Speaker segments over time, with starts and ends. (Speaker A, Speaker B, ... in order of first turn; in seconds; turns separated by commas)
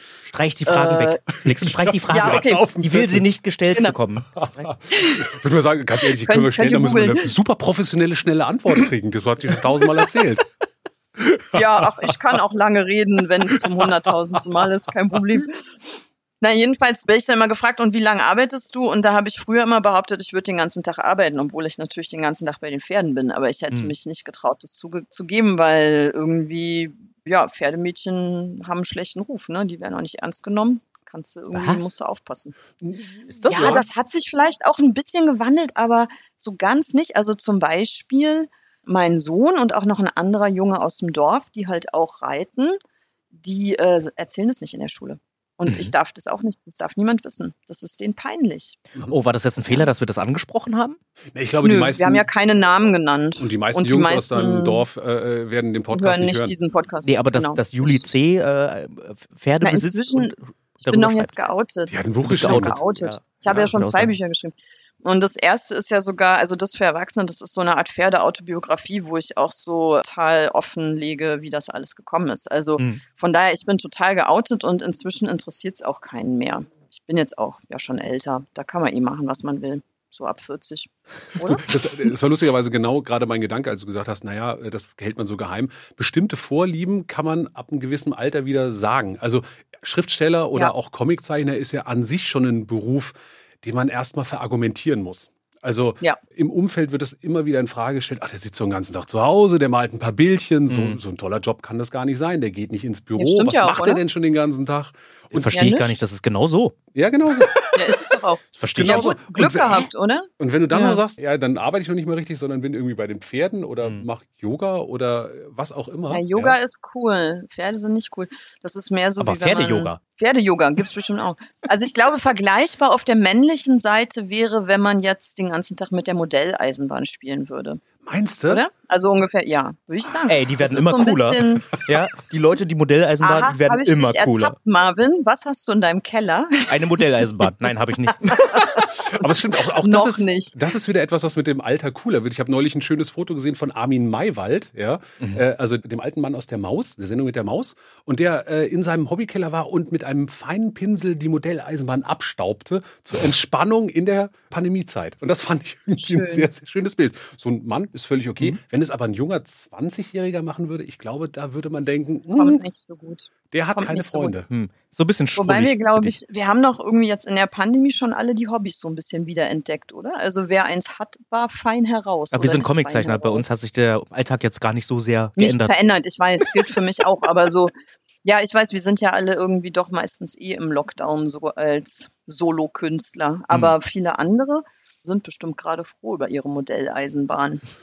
Speaker A: 0.2-4.7, Speaker B: 0.7-1.2, Speaker C: 1.4-3.2, Speaker B: 2.1-2.6, Speaker C: 4.3-10.4, Speaker B: 4.9-5.3, Speaker B: 6.2-7.3, Speaker C: 11.2-11.8, Speaker B: 11.5-15.6, Speaker C: 13.6-13.9, Speaker B: 16.4-32.5, Speaker A: 31.5-31.9, Speaker C: 32.8-33.8, Speaker A: 33.3-33.8, Speaker B: 33.5-42.8, Speaker B: 43.3-48.8, Speaker A: 45.7-45.9, Speaker A: 49.1-51.0, Speaker C: 51.3-52.2, Speaker B: 51.6-54.8, Speaker C: 53.4-56.5, Speaker B: 55.9-57.6, Speaker A: 57.0-61.4, Speaker B: 59.6-60.3, Speaker B: 60.9-81.9, Speaker C: 61.9-62.8, Speaker A: 62.2-64.1, Speaker C: 81.4-105.6, Speaker A: 100.7-101.0, Speaker B: 103.2-104.0, Speaker A: 105.3-106.8, Speaker B: 105.5-105.8, Speaker C: 106.9-109.9, Speaker B: 107.7-111.0, Speaker A: 108.6-109.2, Speaker C: 110.4-116.6, Speaker B: 116.1-127.8, Speaker A: 119.2-120.0, Speaker C: 128.0-128.6, Speaker B: 128.5-131.9, Speaker A: 130.3-134.5, Speaker B: 133.2-137.5, Speaker A: 136.7-138.7, Speaker B: 138.2-139.2, Speaker C: 139.1-162.6, Speaker B: 139.8-140.5, Speaker B: 156.1-156.5, Speaker B: 162.3-164.3, Speaker C: 163.5-164.5, Speaker A: 164.5-166.2, Speaker B: 165.4-173.4, Speaker A: 172.3-175.7, Speaker B: 175.4-177.7, Speaker B: 178.2-187.6